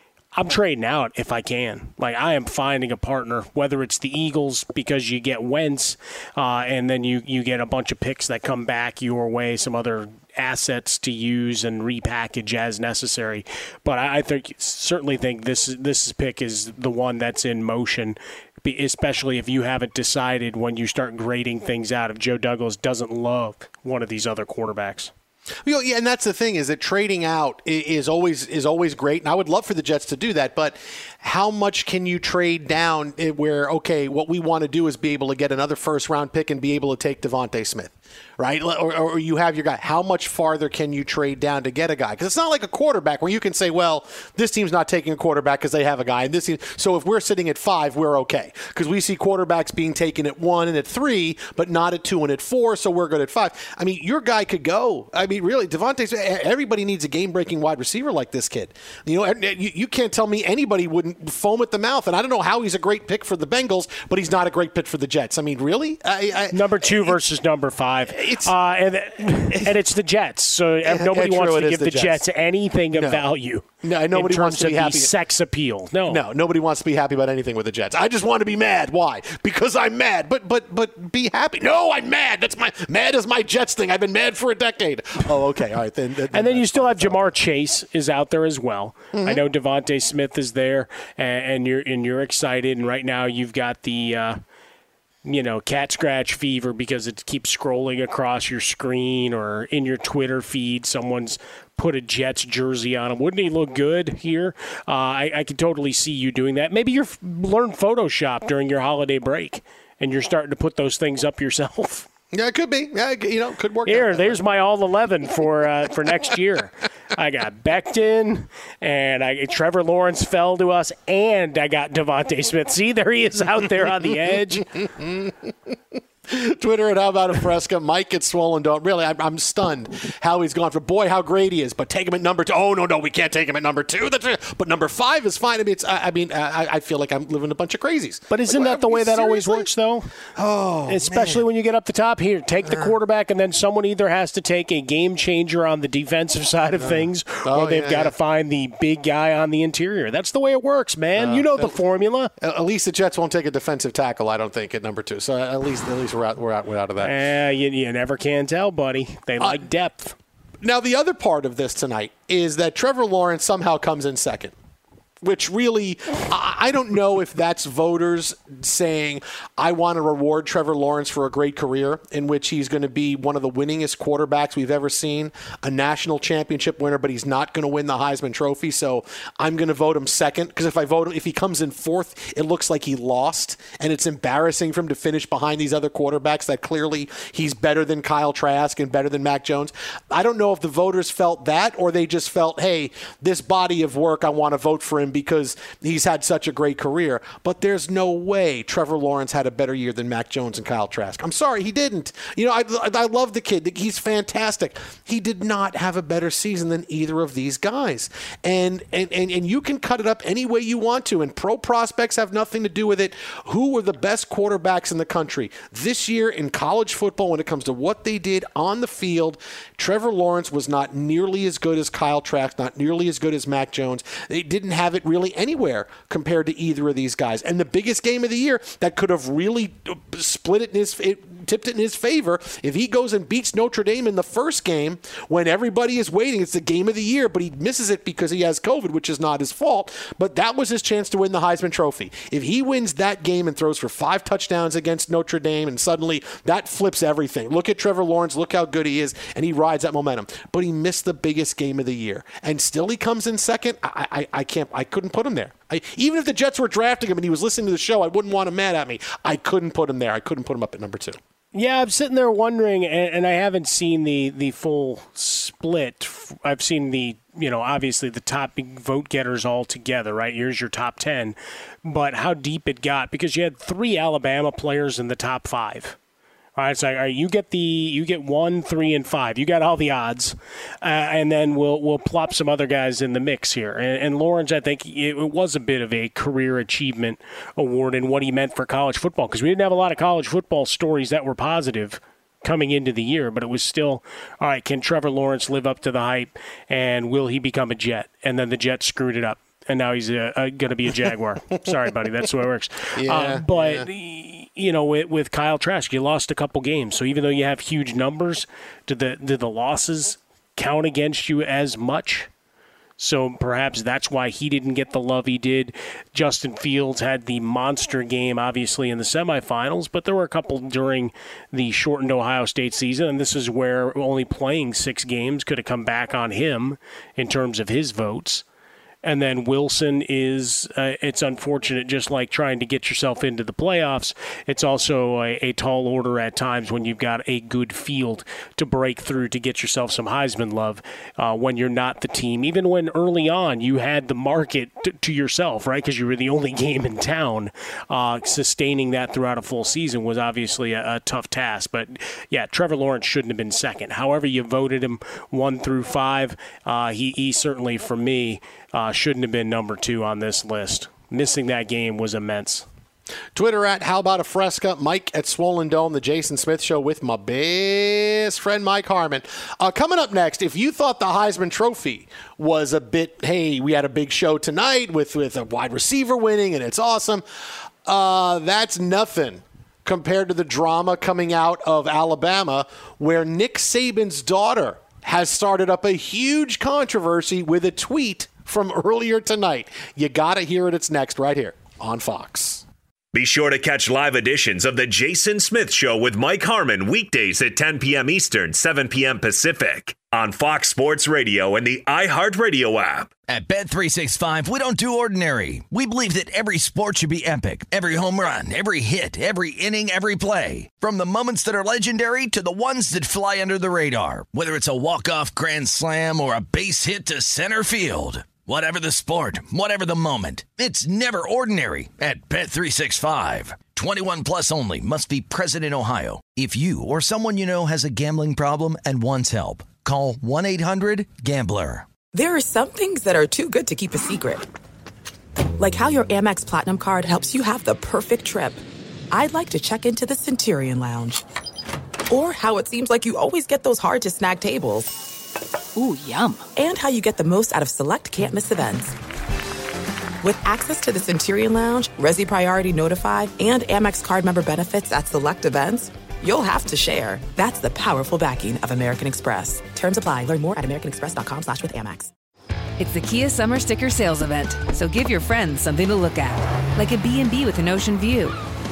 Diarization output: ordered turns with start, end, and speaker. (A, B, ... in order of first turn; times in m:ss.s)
0:00.3-0:25.1 A
0:25.6-1:07.2 B
1:06.5-1:16.2 A
1:08.1-1:08.5 B
1:10.8-1:12.2 B
1:12.9-1:13.2 B
1:13.8-1:15.1 B
1:16.1-1:27.3 B
1:26.3-1:34.4 A
1:29.1-1:29.4 B
1:35.2-1:52.1 A
1:52.3-1:54.4 B
1:53.8-2:04.7 A
2:05.0-2:05.3 B
2:06.3-2:19.7 B
2:18.3-2:20.1 A
2:20.4-2:21.4 B
2:20.9-2:32.3 A
2:26.8-2:28.1 B
2:31.2-2:31.7 B
2:32.4-2:37.1 B
2:37.0-2:40.2 A
2:40.6-2:44.5 B
2:45.2-4:21.2 B
4:21.5-4:36.0 A
4:36.6-5:12.3 A
5:03.0-5:03.9 B
5:13.0-5:28.4 A
5:29.0-6:02.7 A
6:03.3-6:17.2 B
6:17.8-6:32.6 B
6:33.1-6:43.1 C
6:43.3-7:11.9 D
7:12.1-7:14.4 E
7:15.6-7:21.2 E
7:22.1-7:24.9 E
7:25.8-7:26.4 F
7:26.6-7:29.0 E
7:30.2-7:42.1 E
7:42.8-7:48.4 F